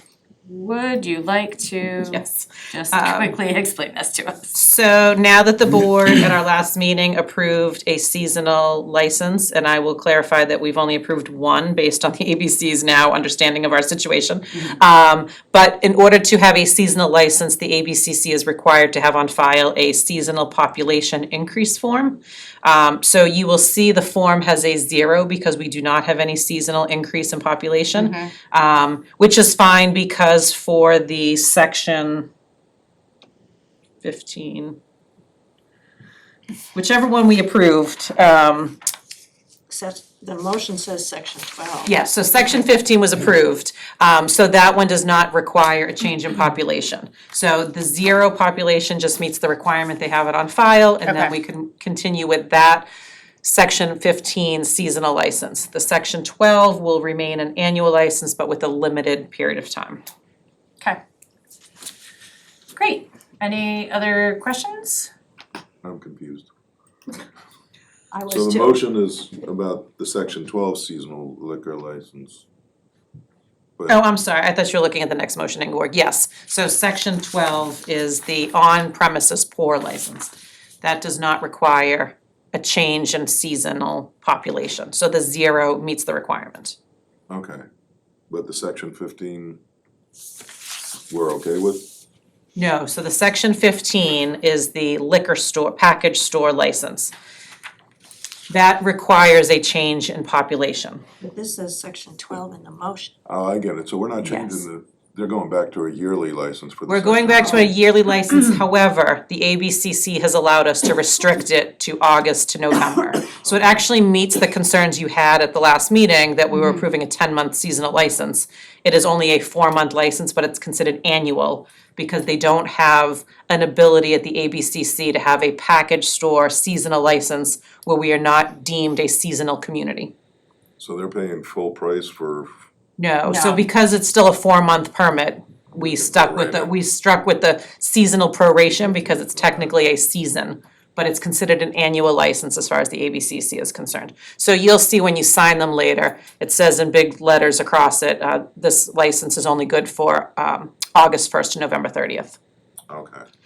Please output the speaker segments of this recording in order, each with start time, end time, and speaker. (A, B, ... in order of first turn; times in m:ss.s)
0:00.5-0:04.5 A
0:02.1-0:03.4 B
0:04.5-0:32.3 B
0:28.0-0:28.3 A
0:34.0-0:34.8 B
0:36.7-0:38.8 B
0:39.7-0:41.9 C
0:41.8-0:52.9 B
0:51.1-0:51.3 A
0:53.4-1:00.0 B
1:02.7-1:05.1 A
1:05.8-1:06.5 D
1:08.1-1:08.8 C
1:08.3-1:12.4 D
1:13.9-1:20.3 B
1:20.8-1:26.8 B
1:27.3-1:27.6 D
1:28.3-1:29.6 D
1:31.1-1:31.9 D
1:32.6-1:37.1 B
1:38.5-1:41.0 B
1:41.2-1:43.1 C
1:43.3-1:47.7 D
1:44.2-1:44.6 B
1:46.9-2:10.1 B
2:10.8-2:12.5 D
2:13.0-2:32.4 B
2:13.2-2:13.7 A
2:15.8-2:16.7 D
2:32.9-2:33.2 D